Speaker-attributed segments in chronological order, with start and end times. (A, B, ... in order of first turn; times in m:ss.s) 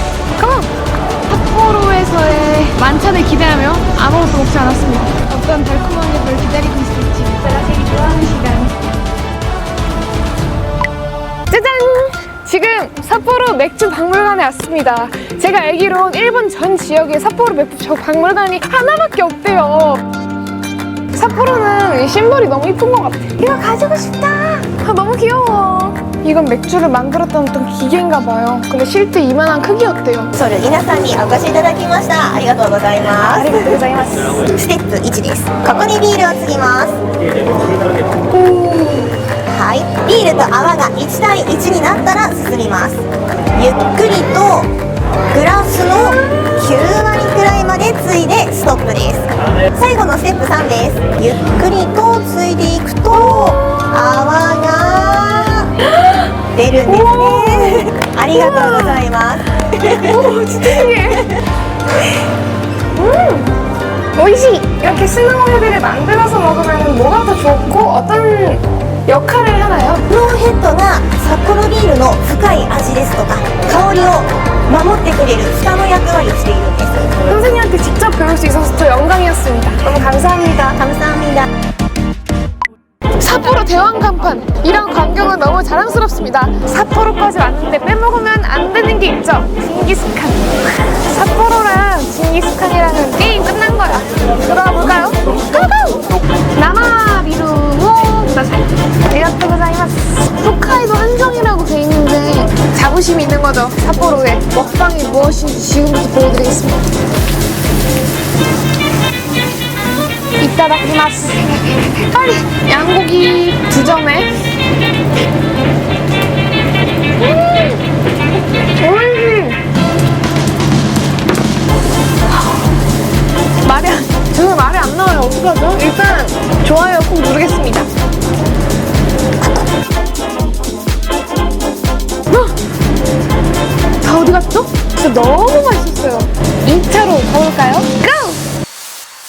0:00.4-0:00.7 A
0:01.3-0:08.7 A
0:11.5-0:20.0 A
0:21.1-0:30.3 A
0:30.4-0:33.8 B
0:33.2-0:34.4 A
0:34.4-0:37.0 B
0:38.5-0:38.9 A
0:39.5-0:44.7 B
0:45.3-0:55.7 B
0:53.2-0:53.7 A
0:55.8-0:56.2 A
0:56.5-1:00.0 B
0:56.8-0:59.1 A
0:59.8-1:01.3 A
1:02.9-1:03.5 A
1:04.2-1:10.0 A
1:10.1-1:17.1 B
1:17.3-1:20.8 A
1:20.8-1:21.5 B
1:23.2-1:46.8 A
1:50.4-1:54.3 A
1:57.2-1:57.8 A
1:58.8-1:59.6 A
2:03.6-2:07.9 A
2:14.0-2:18.4 A